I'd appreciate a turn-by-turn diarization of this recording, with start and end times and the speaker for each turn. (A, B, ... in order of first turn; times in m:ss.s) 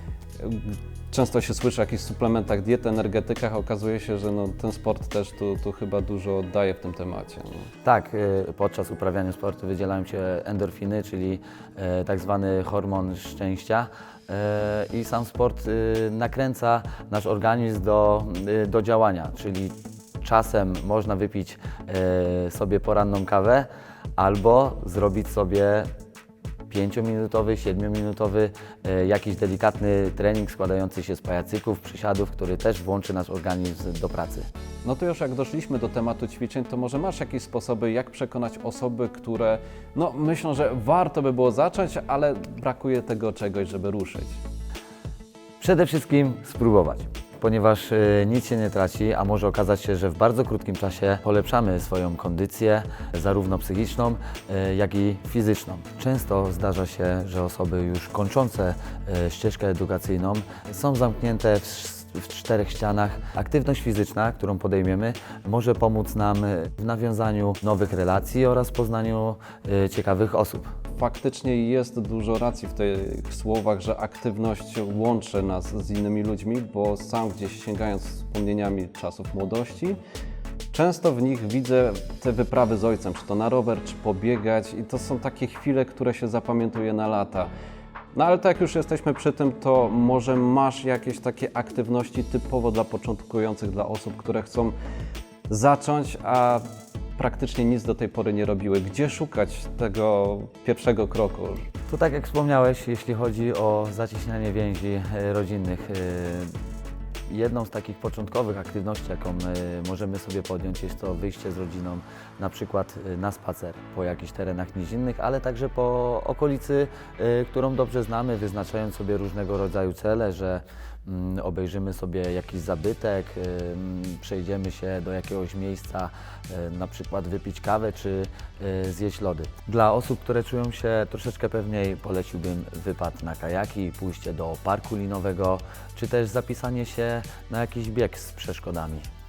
0:00.4-0:07.7 A
0:07.8-0:25.9 B
0:26.7-0:34.5 B
0:34.8-0:44.4 A
0:45.6-1:10.7 B
1:11.0-1:20.0 A
1:20.7-1:27.5 A
1:28.1-1:34.7 A
1:35.5-1:36.6 A
1:37.2-1:41.7 A
1:41.9-1:46.5 B
1:47.3-2:19.1 B